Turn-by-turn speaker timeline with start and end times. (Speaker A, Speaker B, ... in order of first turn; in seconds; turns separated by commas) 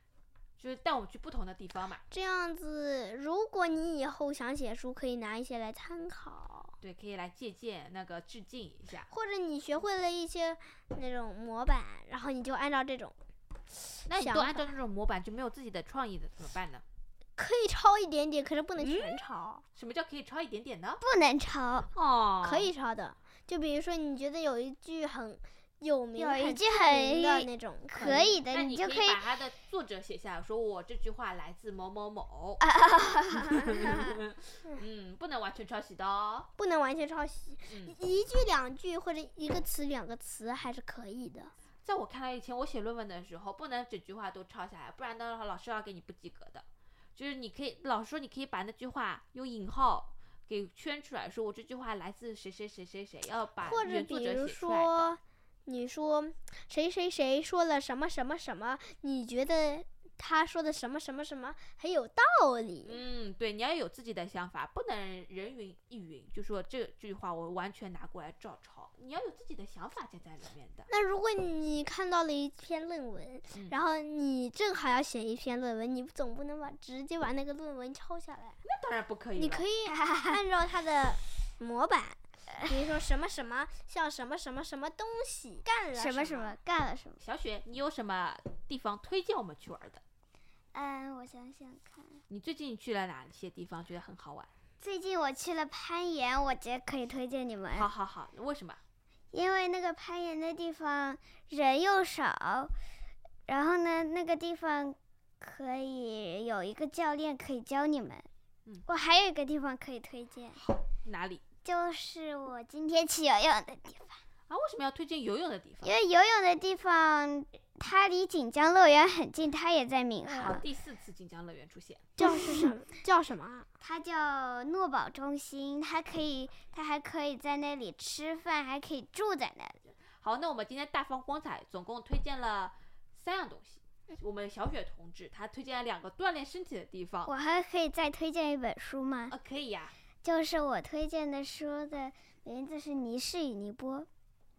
Speaker A: 0.6-2.0, Speaker B: 2.1-6.8, Speaker A: 6.8-9.1, Speaker B: 9.1-13.2, Speaker B: 14.1-14.7, Speaker A: 14.1-16.8, Speaker B: 17.4-19.6, Speaker A: 19.8-21.0, Speaker C: 21.0-21.9, Speaker A: 21.9-22.7, Speaker B: 22.4-28.3, Speaker C: 26.2-29.2, Speaker A: 28.0-32.6, Speaker C: 32.6-34.2, Speaker A: 33.5-36.5, Speaker B: 36.6-41.5, Speaker A: 37.7-38.0, Speaker A: 41.8-46.6, Speaker A: 47.2-55.2, Speaker B: 53.6-63.0, Speaker A: 62.8-70.9, Speaker B: 70.9-78.6, Speaker A: 78.6-79.7, Speaker B: 79.4-86.6, Speaker C: 79.9-80.4, Speaker C: 86.0-87.2, Speaker A: 87.2-90.0, Speaker C: 90.7-92.2, Speaker A: 92.3-94.5, Speaker C: 94.8-97.9, Speaker A: 97.7-98.8, Speaker C: 99.3-102.7, Speaker C: 103.5-108.3, Speaker C: 108.9-110.6, Speaker A: 110.6-111.4, Speaker C: 111.6-114.2, Speaker A: 114.5-115.9, Speaker C: 115.8-120.6, Speaker B: 120.3-120.5, Speaker A: 120.4-122.2, Speaker B: 122.2-123.7, Speaker C: 122.2-122.7, Speaker C: 123.8-129.8, Speaker A: 130.0-137.3, Speaker C: 137.3-139.3, Speaker A: 139.3-139.9, Speaker C: 140.2-144.1